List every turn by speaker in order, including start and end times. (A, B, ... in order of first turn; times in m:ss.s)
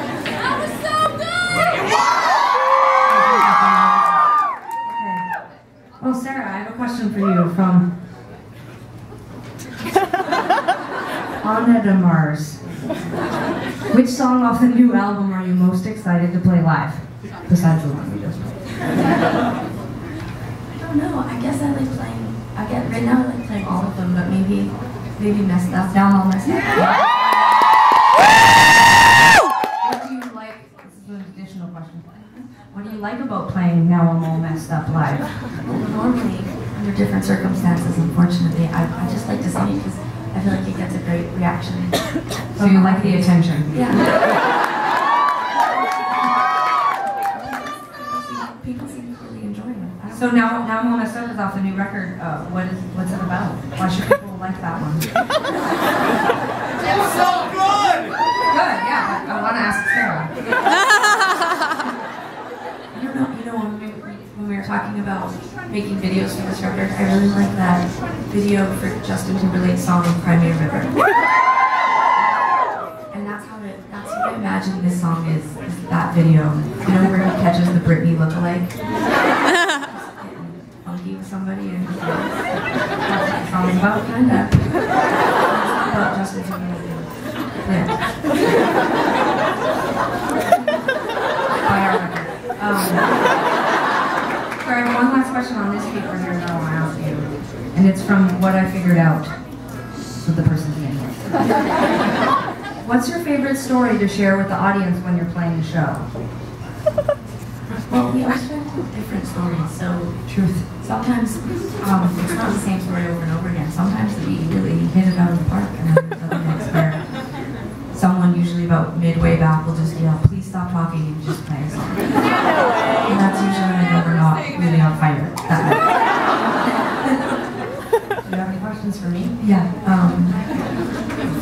0:03.0-0:07.9 A
0:11.4-0:12.7 A
0:13.9-0:18.8 A
0:20.7-0:27.1 B
0:26.8-0:27.0 A
0:29.8-0:35.4 A
0:35.6-0:44.1 B
0:42.6-0:43.9 A
0:47.3-0:50.6 B
0:50.1-0:55.1 A
0:58.5-1:00.5 A
1:02.9-1:11.0 B
1:13.1-1:22.7 B
1:23.0-1:24.6 A
1:24.0-1:28.3 B
1:31.6-1:33.2 A
1:34.6-1:39.6 A
1:40.2-1:41.6 A
1:42.8-1:46.1 A
1:47.9-2:06.4 B
1:50.3-1:50.7 A
2:08.2-2:09.4 A
2:09.4-2:10.6 B